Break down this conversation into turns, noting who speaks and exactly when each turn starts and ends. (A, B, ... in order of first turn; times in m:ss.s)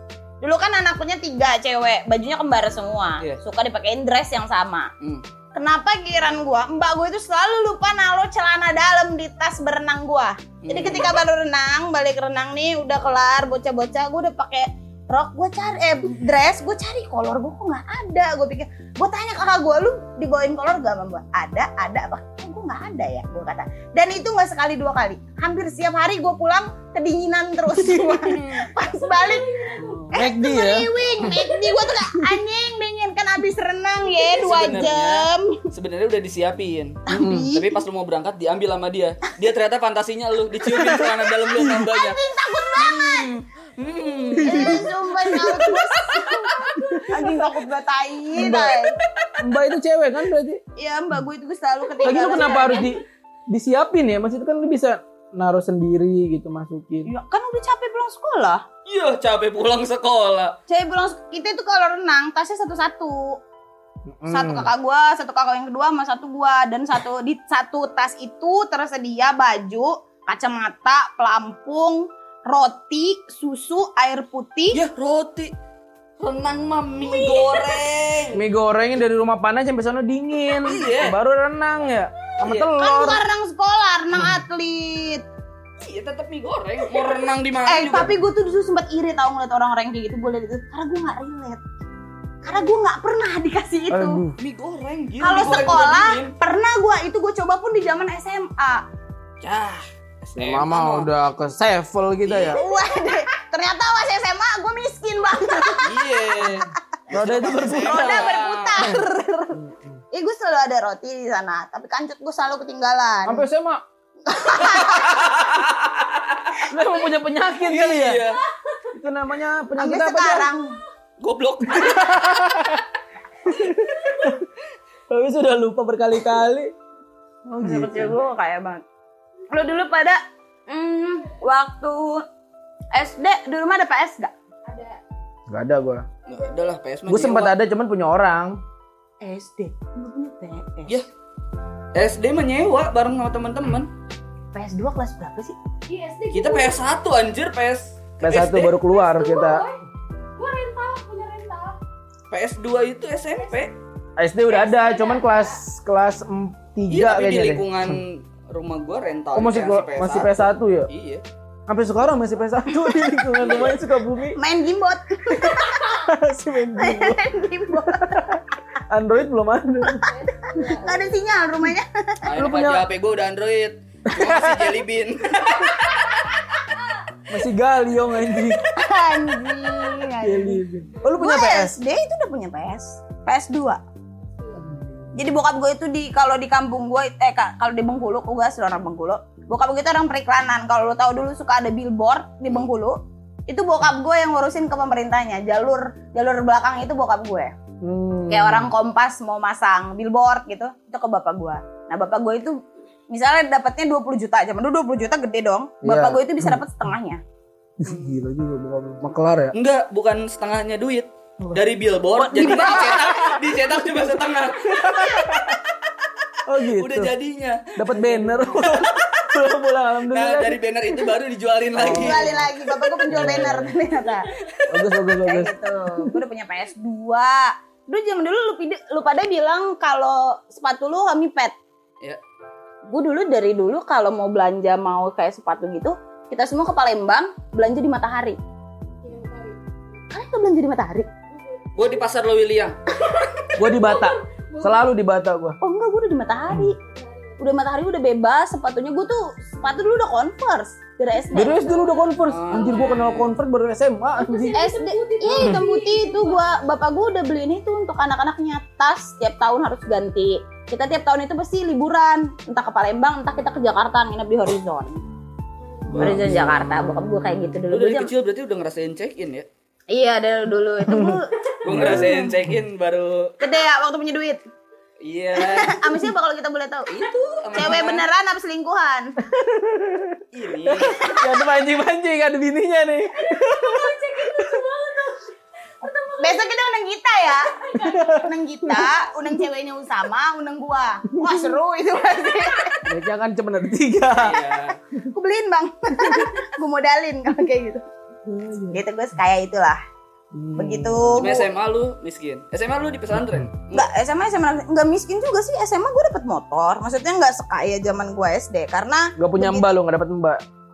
0:00.4-0:04.9 A
0:05.5-0:35.6 A
0:10.6-0:11.2 B
0:27.8-0:28.2 C
0:28.8-0:30.2 D
0:29.8-0:31.3 C
0:31.0-0:31.9 D
0:34.1-0:34.8 D
0:34.4-0:37.0 B
0:37.1-0:37.8 A
0:37.1-0:37.5 C
0:37.5-0:42.2 B
0:40.7-0:41.8 C
0:41.6-0:43.4 A
0:42.8-0:45.0 B
0:44.4-0:44.9 C
0:44.4-0:49.0 A
0:45.5-0:46.7 B
0:46.7-0:47.4 C
0:48.3-0:48.8 C
0:49.4-0:50.6 C
0:50.8-0:53.0 A
0:52.0-0:57.1 C
0:57.1-0:58.6 A
0:58.9-1:00.6 B
1:00.7-1:03.4 A
1:04.1-1:04.7 C
1:04.3-1:14.8 A
1:14.7-1:15.5 B
1:16.2-1:18.4 B
1:18.3-1:23.2 C
1:20.6-1:21.2 B
1:22.4-1:22.7 B
1:22.8-1:25.2 A
1:25.8-1:28.1 B
1:27.7-1:31.6 A
1:32.4-1:34.2 A
1:33.9-1:34.4 C
1:34.4-1:36.3 B
1:35.2-1:38.8 A
1:39.4-1:41.1 B
1:40.4-1:42.6 C
1:42.2-1:42.6 B
1:42.5-1:46.5 A
1:45.8-1:48.9 B
1:47.1-1:49.0 C
1:47.5-1:49.6 A
1:49.5-1:50.0 C
1:50.1-1:53.4 A
1:53.3-1:53.8 C
1:54.3-1:55.3 A
1:54.6-1:56.6 B
1:56.7-1:58.2 C
1:57.6-1:58.4 B
1:58.9-2:00.5 C
1:59.8-2:00.8 A
2:01.2-2:02.3 B
2:01.7-2:02.8 C
2:03.5-2:04.4 C
2:05.1-2:06.7 C
2:07.5-2:08.2 C
2:07.6-2:08.8 A
2:09.5-2:12.2 A
2:12.9-2:14.3 A
2:14.6-2:15.0 D
2:15.5-2:16.1 C
2:16.3-2:17.5 B
2:16.3-2:16.6 D
2:17.1-2:18.6 C
2:19.2-2:21.0 A
2:21.9-2:23.9 B
2:24.5-2:25.6 A
2:25.9-2:26.8 D
2:26.3-2:28.8 B
2:28.2-2:29.7 C
2:28.8-2:29.8 D
2:30.4-2:31.8 D
2:32.3-2:33.8 B
2:34.2-2:38.0 C
2:34.5-2:35.6 D
2:36.9-2:41.2 B
2:39.4-2:40.9 C
2:41.7-2:44.4 C
2:43.4-2:43.7 D
2:44.4-2:46.0 A
2:45.4-2:50.7 C
2:46.8-2:48.4 A
2:49.9-2:51.2 D
2:50.7-2:52.2 A
2:52.2-2:56.3 B
2:52.4-2:52.8 C
2:54.1-2:54.8 C
2:57.3-2:58.6 C
2:58.7-3:03.8 A
3:00.2-3:01.8 C
3:04.4-3:04.6 D
3:04.6-3:05.1 C
3:05.2-3:13.0 A
3:13.5-3:17.5 A
3:17.8-3:18.7 C
3:18.3-3:27.2 A
3:25.8-3:26.6 C
3:27.8-3:29.6 C
3:27.9-3:28.2 B
3:29.5-3:35.6 B
3:32.2-3:33.3 C
3:32.3-3:33.4 A
3:34.6-3:35.6 C
3:36.5-3:37.1 C
3:36.7-3:39.0 B
3:37.8-3:40.6 C
3:40.1-3:42.4 B
3:41.8-3:42.5 C
3:41.9-3:44.3 A
3:43.1-3:43.7 C
3:44.7-3:46.2 C
3:45.3-3:51.5 A
3:52.9-3:58.4 A
3:59.0-3:59.6 D
4:00.1-4:01.1 A
4:01.3-4:02.0 D
4:01.8-4:02.8 B
4:03.2-4:04.9 D
4:03.6-4:05.6 C
4:05.6-4:06.8 A
4:06.8-4:07.4 D
4:07.4-4:11.7 A
4:11.2-4:13.2 D
4:11.3-4:14.6 C
4:12.3-4:13.3 B
4:14.2-4:16.5 D
4:14.5-4:25.0 A
4:25.6-4:26.1 D
4:25.9-4:27.5 C
4:25.9-4:28.1 A
4:27.7-4:29.5 B
4:29.9-4:32.2 A
4:30.9-4:32.6 C
4:31.6-4:33.4 B
4:33.4-4:34.4 A
4:35.0-4:35.8 B
4:35.3-4:36.9 A
4:36.9-4:38.1 B
4:37.5-4:39.2 A
4:39.3-4:44.6 C
4:40.3-4:41.0 B
4:43.2-4:46.5 D
4:46.2-4:52.9 A
4:47.5-4:48.2 D
4:47.8-4:48.8 C
4:51.1-4:51.5 C
4:52.9-4:54.4 C
4:54.2-4:54.8 B
4:55.1-4:57.8 A
4:58.3-4:58.8 C
4:58.7-4:59.8 A
5:00.3-5:01.3 C
5:00.6-5:01.5 A
5:01.2-5:03.9 B
5:03.7-5:09.7 A
5:09.2-5:10.4 C